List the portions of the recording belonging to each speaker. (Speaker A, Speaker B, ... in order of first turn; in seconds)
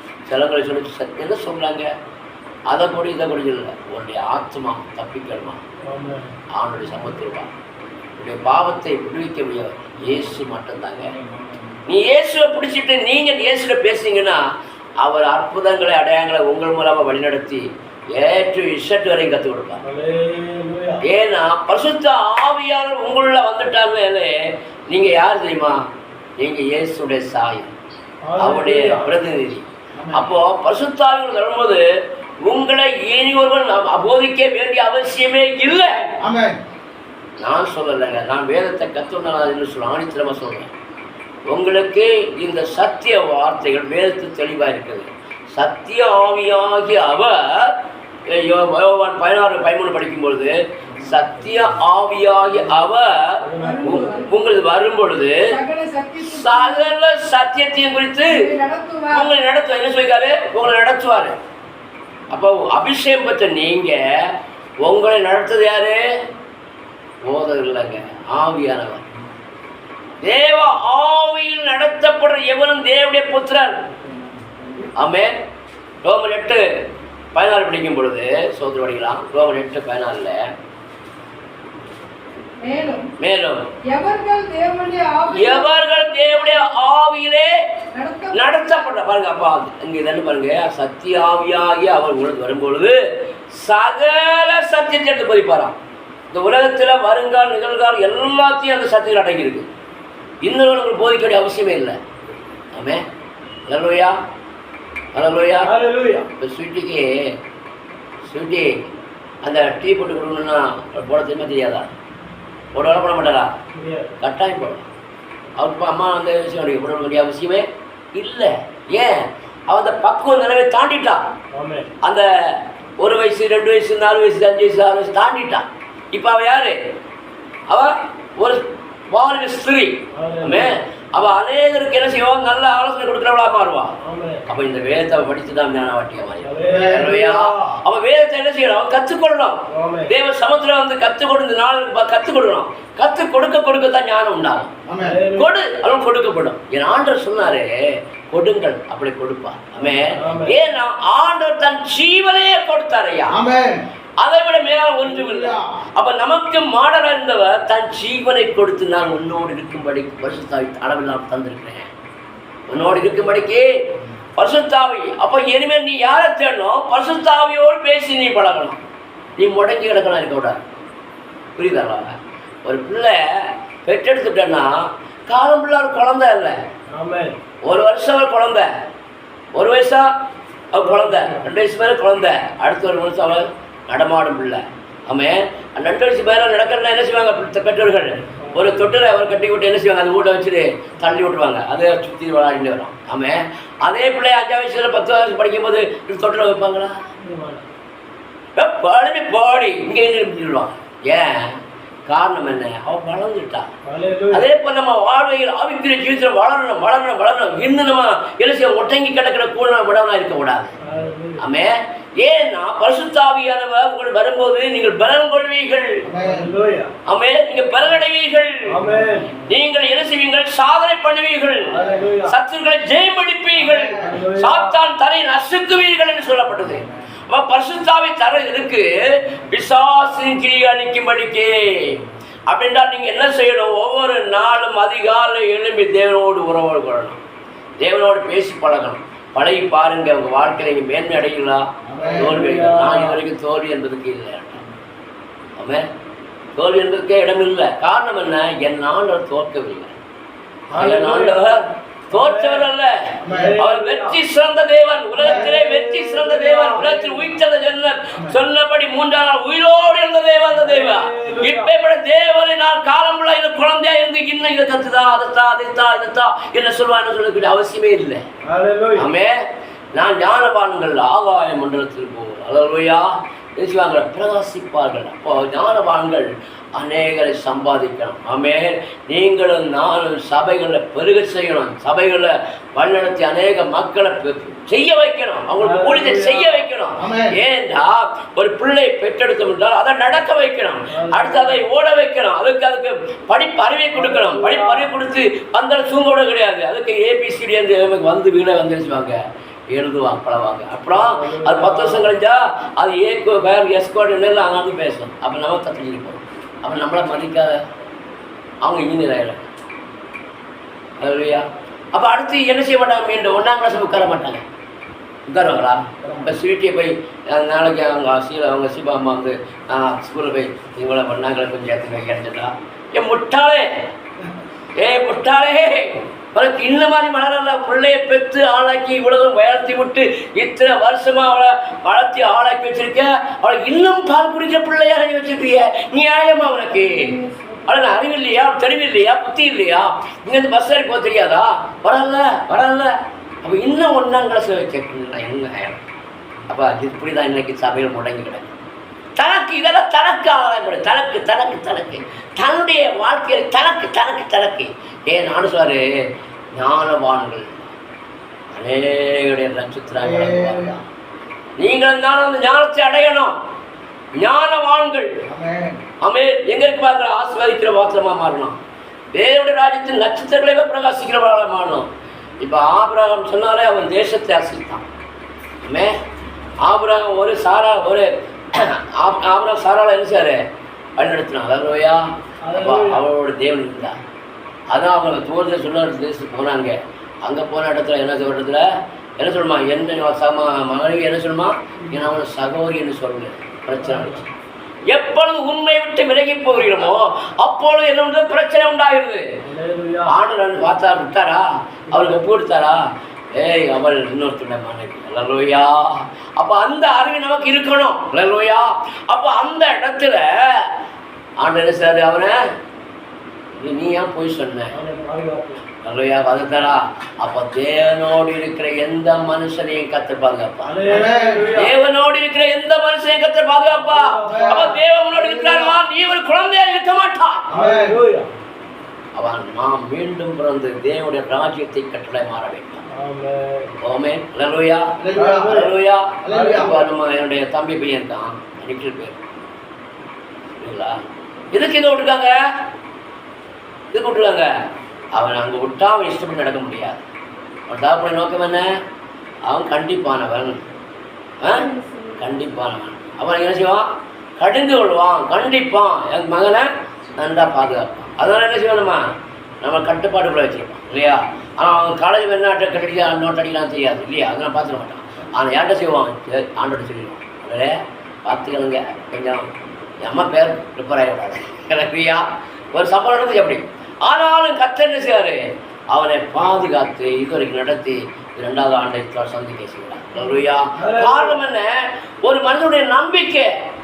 Speaker A: 0.3-1.9, 2.7-5.6, 6.6-7.5, 8.2-11.2, 11.9-14.4, 15.0-19.8, 21.0-24.3, 24.9-25.8, 26.4-27.7, 28.4-31.8, 32.4-36.1, 37.4-40.7, 41.5-47.8, 48.3-55.4, 56.2-58.4, 59.1-61.3, 62.3-64.3, 64.8-66.0, 67.2-69.1, 70.2-73.8, 75.0-75.3, 76.0-76.6, 77.3-80.4, 83.2-83.6, 85.3-87.5, 88.3-93.0, 93.6-95.8, 96.3-99.7, 100.4-102.0, 102.7-103.0, 103.7-104.1, 105.1-105.8, 106.4-107.1, 108.2-111.9, 112.7-113.5, 114.2-114.8, 115.6-121.2, 123.0-126.8, 127.7-133.9, 134.5-144.7, 145.3-147.7, 148.3-153.4, 154.2-161.9, 162.7-163.7, 164.4-168.8, 169.4-170.6, 171.6-176.6, 177.6-178.7, 179.5-180.1, 180.7-196.9, 198.6-203.7, 204.3-210.7, 211.4-216.1, 217.1-218.7, 219.4-237.2, 237.8-244.6, 245.6-245.8, 246.6-249.9, 250.7-268.2, 268.9-269.3, 269.9-299.2, 299.7-307.6, 308.6-309.5, 311.0-314.4, 315.3-323.7, 324.8-337.1, 337.7-345.8, 346.5-348.5, 349.2-355.8, 356.6-357.5, 358.5-360.7, 361.6-363.3, 364.2-365.1, 366.0-368.6, 369.1-371.9, 372.4-374.8, 375.6-375.9, 376.6-380.4, 381.0-383.9, 384.7-388.6, 389.2-394.2, 394.9-399.2, 400.1-402.8, 403.3-410.7, 411.4-412.4, 413.6-414.8, 415.8-420.9, 421.5-427.5, 429.1-432.8, 433.8-434.9, 435.5-439.2, 440.6-440.9, 441.5-442.4, 443.9-444.5, 445.1-447.0, 447.7-448.7, 449.5-450.6, 451.4-453.9, 454.4-459.0, 459.6-469.5, 470.0-483.5
Speaker B: 5.8-6.3, 19.8-21.0, 28.2-29.1, 53.4-54.1, 105.6-106.3, 113.7-114.1, 121.5-121.9, 130.1-130.7, 134.0-134.4, 136.4-137.4, 139.7-140.1, 145.0-145.5, 150.2-150.6, 176.9-177.4, 180.8-181.5, 188.4-188.8, 197.2-197.6, 203.8-204.4, 210.8-211.4, 216.2-216.9, 218.7-219.3, 221.7-222.3, 224.0-224.7, 242.0-243.2, 250.7-251.4, 252.1-252.7, 253.3-254.2, 255.2-257.3, 260.6-261.7, 268.4-269.1, 285.6-286.6, 290.9-291.6, 293.9-294.9, 300.9-302.1, 382.4-383.0, 393.8-394.2, 399.4-400.1, 401.9-402.3, 414.7-415.6, 420.6-421.7, 423.8-424.8, 427.5-428.3, 432.9-433.7, 435.1-435.7, 480.8-481.4
Speaker C: 29.9-30.3, 36.2-36.6, 136.7-137.1, 144.9-145.2, 153.3-153.8, 155.2-155.6, 216.0-216.5, 218.9-219.4, 223.6-224.1, 241.8-242.5, 253.2-253.6, 255.2-255.6, 287.0-287.4, 316.0-316.3, 360.0-360.8, 365.2-365.8, 420.9-421.5, 424.2-425.8, 427.5-428.0, 435.0-435.7, 436.2-436.8
Speaker D: 53.6-54.3, 55.5-56.9, 58.3-59.3, 82.6-83.1, 83.9-86.8, 87.9-89.0, 336.6-337.9, 451.5-452.3